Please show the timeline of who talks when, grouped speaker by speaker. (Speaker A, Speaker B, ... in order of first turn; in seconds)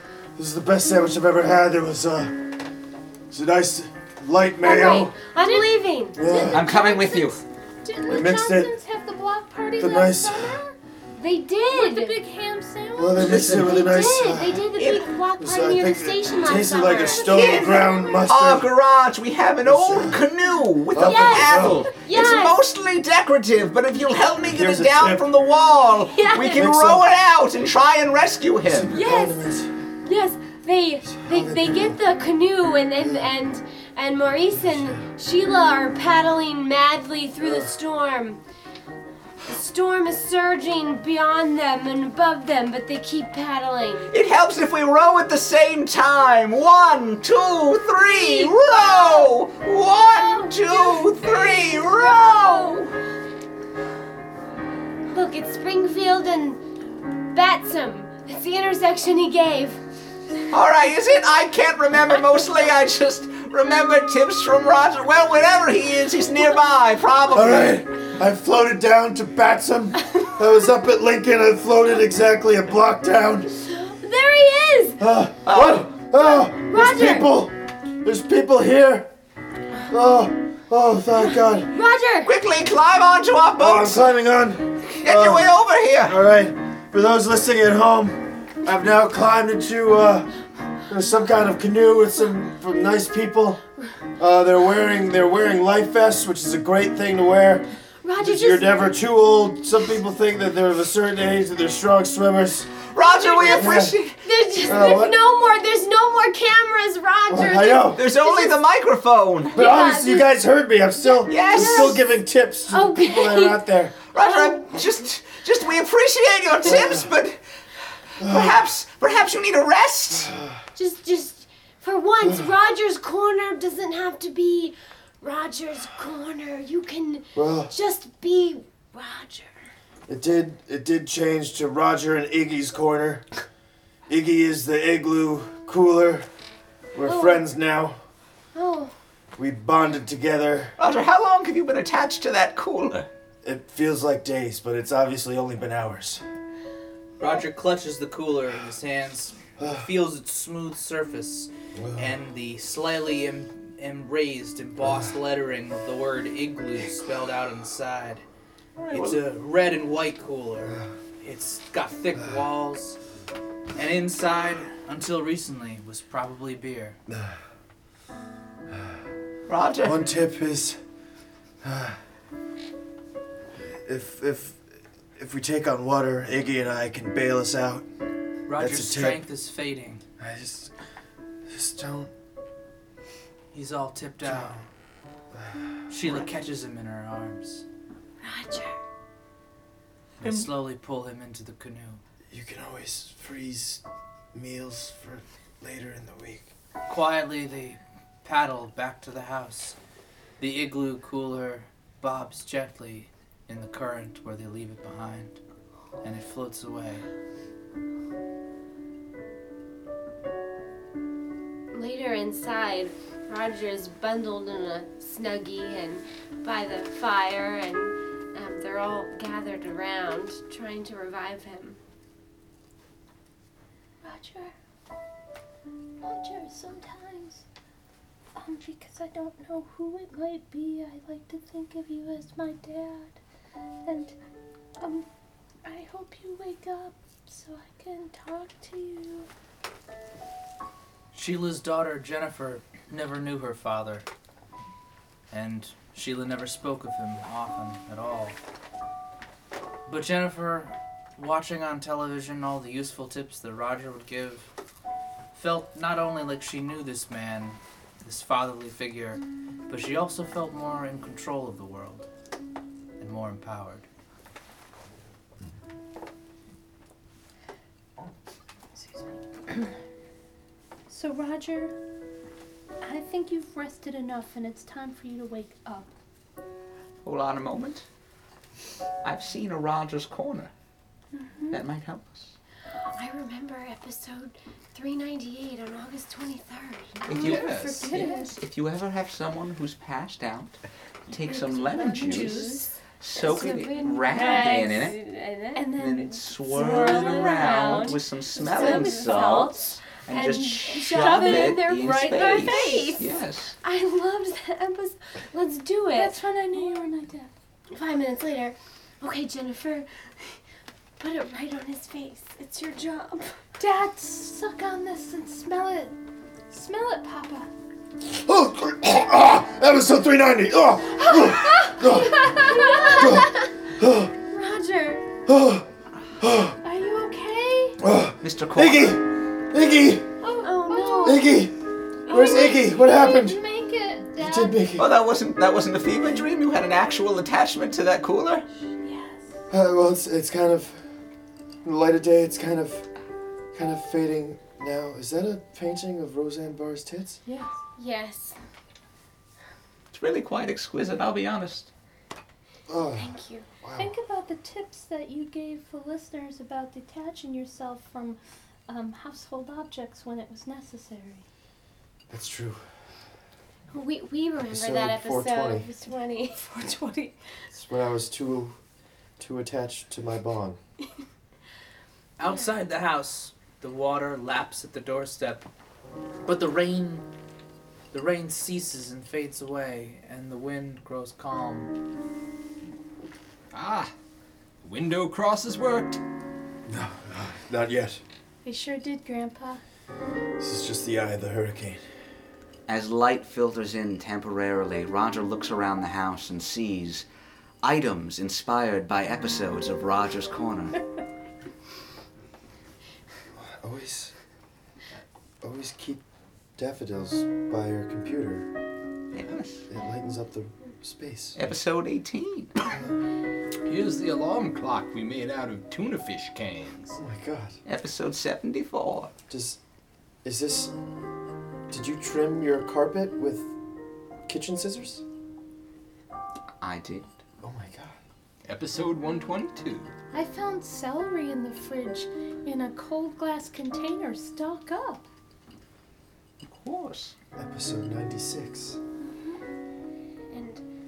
Speaker A: 0.3-2.4, 3.3-5.2, 6.2-6.7, 8.1-8.7, 9.8-10.6, 12.9-14.7, 15.4-18.7, 19.6-20.2, 20.9-21.9, 24.4-25.2, 26.5-27.1, 28.6-29.7, 31.1-32.0, 33.0-33.3, 34.5-35.1, 37.4-37.7, 67.3-73.5, 75.0-79.1, 79.9-81.7, 83.6-90.3, 90.9-93.6, 94.2-97.7, 98.2-102.7, 103.4-104.0, 104.6-105.2, 107.3-108.0, 109.5-114.0, 116.6-117.1, 118.2-118.6, 120.1-120.5, 122.2-122.5, 127.3-127.7, 130.1-133.2, 134.1-136.2, 136.9-138.0, 139.4-140.7, 143.4-146.2, 149.6-149.9, 151.7-152.2, 154.8-155.1, 167.1-167.3, 168.7-168.9, 169.8-170.8, 171.6-172.0, 173.6-174.6, 175.2-177.8, 178.6-179.2, 180.2-180.7, 181.5-182.1, 184.2-184.7, 185.3-186.2, 192.3-193.8, 194.3-196.5, 318.1-324.1, 325.2-325.6, 326.2-326.6, 327.8-330.1, 331.0-331.5, 332.1-333.4, 334.2-334.9, 339.5-340.8, 341.6-342.9, 343.5-347.2, 352.7-353.9, 362.1-362.6, 364.5-365.7, 367.5-368.6, 369.2-370.6, 386.7-388.0, 390.4-391.8, 403.4-404.1, 405.4-406.0, 406.6-408.5, 409.7-411.4, 416.9-417.6, 419.3-419.6, 420.2-420.7, 421.7-423.5, 424.3-425.0, 427.4-428.0, 437.4-438.8
Speaker B: 4.6-6.2, 11.2-12.2, 13.4-17.8, 21.0-22.6, 26.1-26.7, 28.9-29.4, 30.0-38.4, 39.5-44.1, 48.0-49.3, 50.1-52.9, 55.1-56.6, 57.3-59.8, 73.6-75.0, 76.2-77.3, 81.2-82.3, 98.0-98.9, 103.0-108.6, 109.5-110.3, 111.0-112.0, 112.7-113.6, 114.1-114.7, 120.8-129.5, 137.0-137.4, 138.5-138.9, 188.2-188.8, 211.7-221.8, 282.9-288.1, 291.8-292.6, 293.1-306.9, 307.7-310.4, 311.0-313.4, 322.2-323.5, 324.3-325.0, 330.4-331.3, 347.8-348.4, 352.9-353.5, 363.7-367.1, 440.3-440.6
Speaker C: 5.4-10.7, 11.6-13.8, 16.8-18.2, 224.0-224.5, 226.0-227.4, 228.3-233.2, 233.8-234.1, 234.8-235.1, 235.6-239.3, 268.8-269.7, 270.9-271.7, 272.8-275.9, 281.1-281.6, 287.2-288.4, 291.1-294.7, 295.6-295.9, 296.6-297.2, 298.4-299.6, 300.8-301.6, 302.4-303.0, 305.9-307.3, 313.6-316.0, 316.5-317.5, 321.1-323.2, 326.6-327.8, 330.2-331.4, 332.1-334.7, 338.8-339.4, 347.2-347.6, 353.8-361.2, 366.5-367.1, 388.4-389.6, 430.1-435.0
Speaker D: 6.5-7.4, 13.2-14.1, 14.8-15.1, 17.2-29.0, 44.1-52.9, 60.5-67.8, 75.5-75.9, 82.2-84.0, 84.9-86.2, 102.9-104.2, 108.0-109.6, 111.2-112.0, 114.1-117.4, 118.2-120.3, 140.8-143.1, 158.8-159.2, 169.5-170.0, 277.0-277.9, 279.0-280.5, 281.5-282.4, 287.1-295.0, 295.7-303.5, 328.2-329.0, 334.8-338.4, 349.9-351.7, 392.7-397.1, 397.6-400.8, 409.1-409.6, 411.4-412.5, 417.6-419.1, 426.6-427.1, 436.4-437.1
Speaker E: 147.2-158.2, 158.9-163.0, 163.8-167.0, 178.5-180.0, 183.5-184.6, 185.9-187.6, 190.2-192.0, 196.9-199.8, 200.4-205.4, 206.0-207.1, 241.1-244.1, 245.3-248.4, 249.8-254.5, 255.3-262.1, 263.0-263.9, 372.2-375.4, 376.2-377.1, 377.9-381.7
Speaker F: 287.1-287.9, 383.5-383.9, 384.6-386.0, 413.6-417.0, 428.4-429.9